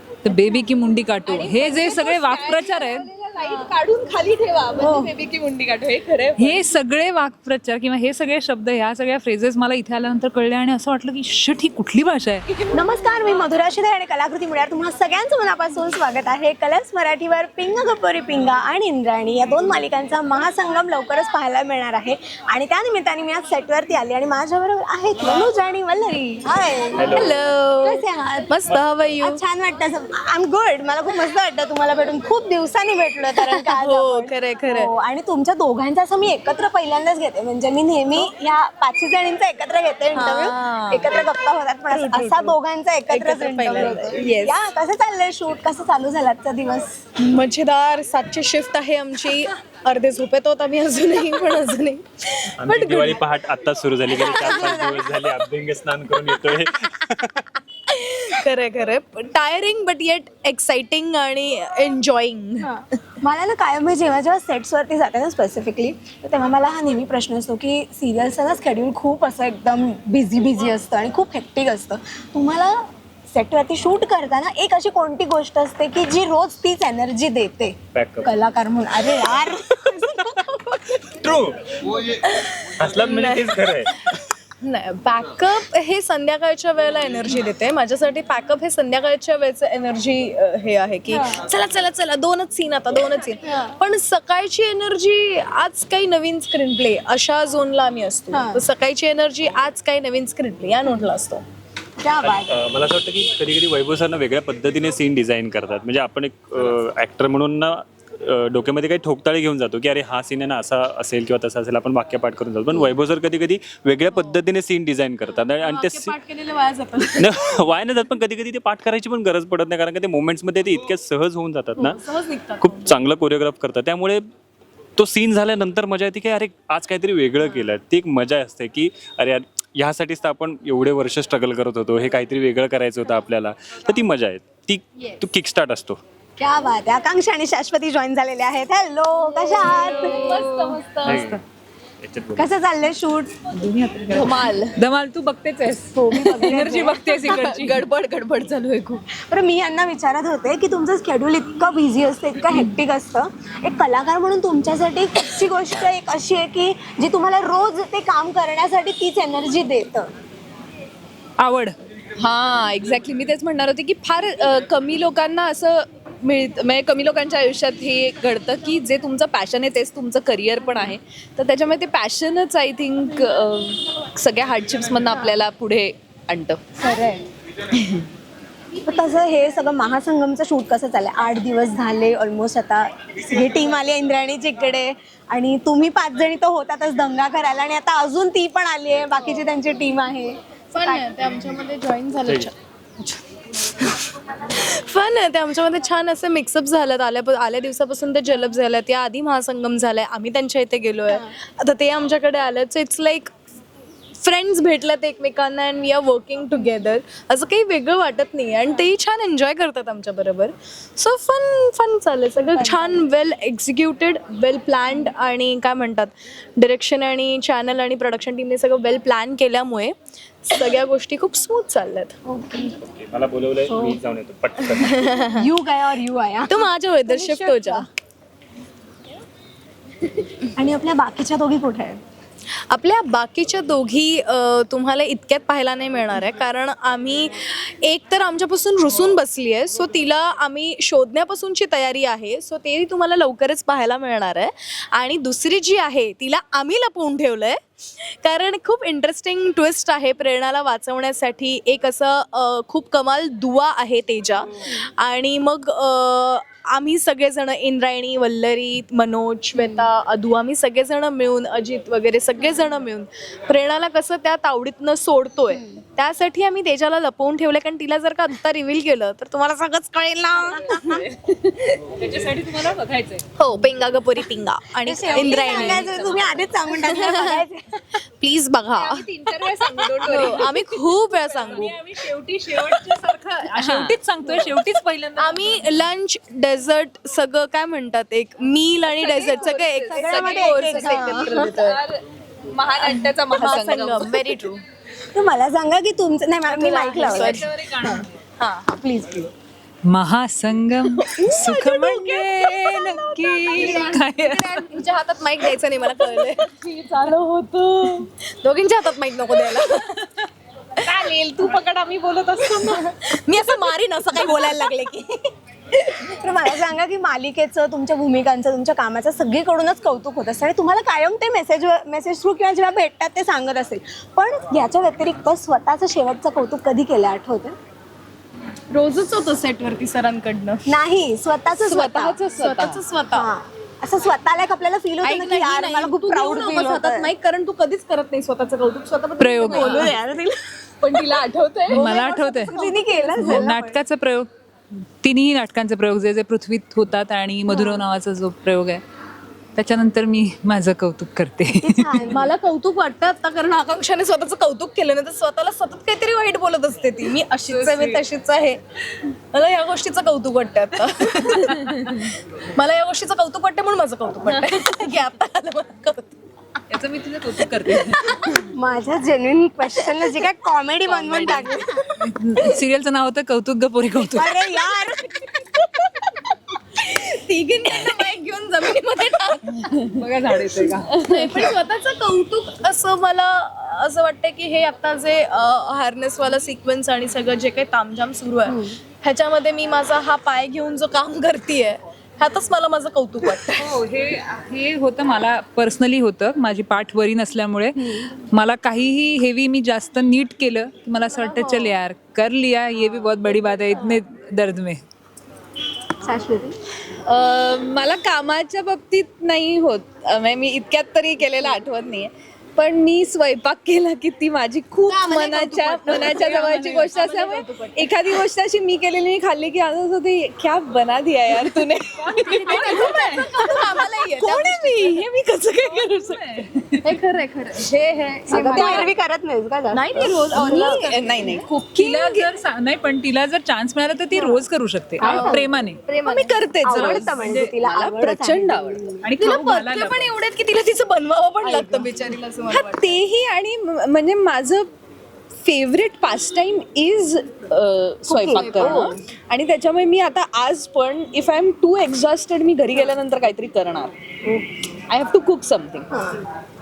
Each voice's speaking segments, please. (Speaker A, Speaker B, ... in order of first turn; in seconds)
Speaker A: 0.2-3.1, 6.4-12.5, 139.5-141.3, 143.5-147.8, 161.4-161.8, 271.9-273.2, 275.4-276.2, 280.0-280.5, 281.1-285.8, 297.0-298.1, 299.9-304.8, 339.2-339.9, 341.7-344.3, 345.0-348.8, 349.6-352.2, 357.5-358.0, 366.7-368.4, 372.0-374.4, 379.9-381.0, 393.6-404.8, 422.1-423.3, 425.7-426.8, 431.8-435.8, 436.8-437.5, 439.0-440.1
Speaker B: 1.3-6.6, 144.1-144.8, 146.7-149.0, 162.2-176.6, 177.7-178.1, 270.9-271.8, 275.2-276.1, 278.7-280.8, 283.5-284.6, 288.9-294.3, 301.6-303.8, 331.6-332.8, 339.6-339.9, 380.9-381.5, 406.9-423.0, 424.2-425.1, 428.2-428.9, 430.0-432.3, 436.0-439.0, 442.5-444.7, 445.4-453.9, 454.9-455.9
Speaker C: 12.7-27.3, 27.8-47.0, 54.1-55.2, 62.6-80.4, 91.1-91.4, 93.5-93.7, 98.3-98.6, 102.0-102.6, 136.4-140.4, 142.4-143.3, 145.9-147.3, 149.1-160.1, 176.8-177.3, 178.8-191.1, 212.4-213.0, 222.3-222.7, 223.7-224.0, 224.8-227.9, 230.6-232.0, 259.6-259.9, 265.5-265.8, 270.6-271.0, 274.8-277.8, 289.9-291.6, 295.1-298.1, 298.7-299.3, 314.1-314.7, 316.0-327.6, 330.7-332.3, 333.1-337.1, 339.5-339.9, 341.7-343.8, 347.5-347.8, 351.6-352.3, 368.4-371.9, 374.1-375.4, 388.5-388.8, 397.8-398.1, 406.0-406.6, 428.3-430.8, 435.0-435.5, 436.6-439.0, 441.4-442.1, 448.1-449.0, 454.3-454.5
Speaker D: 26.9-27.4, 52.6-57.4, 77.9-78.3, 81.0-81.6, 82.8-84.1, 102.2-116.1, 117.2-122.0, 122.6-124.3, 125.0-136.0, 141.1-141.4, 142.0-142.5, 222.9-225.2
Speaker E: 27.1-29.4, 33.3-34.9, 40.1-41.3, 41.9-42.6, 43.1-44.6, 47.2-53.2, 54.3-54.8, 57.9-62.7, 80.5-80.9, 82.2-101.4, 115.6-117.6, 121.9-123.0, 139.5-141.3, 190.7-192.5, 194.5-203.3, 204.2-222.2, 224.8-225.5, 226.5-227.9, 232.7-271.0, 273.4-277.4, 278.2-279.1, 279.9-281.8, 285.2-291.8, 293.3-294.6, 296.5-297.5, 298.4-298.7, 301.0-310.1, 310.8-315.2, 328.7-330.6, 332.3-333.3, 335.0-340.3, 340.8-343.0, 352.1-358.6, 359.3-366.2, 367.7-368.2, 371.1-371.5, 374.5-375.9, 376.8-379.6, 381.0-393.7, 401.2-401.7, 414.9-418.1, 422.2-426.2, 426.8-428.9, 429.7-431.2, 435.0-436.5, 439.2-442.9, 448.3-448.9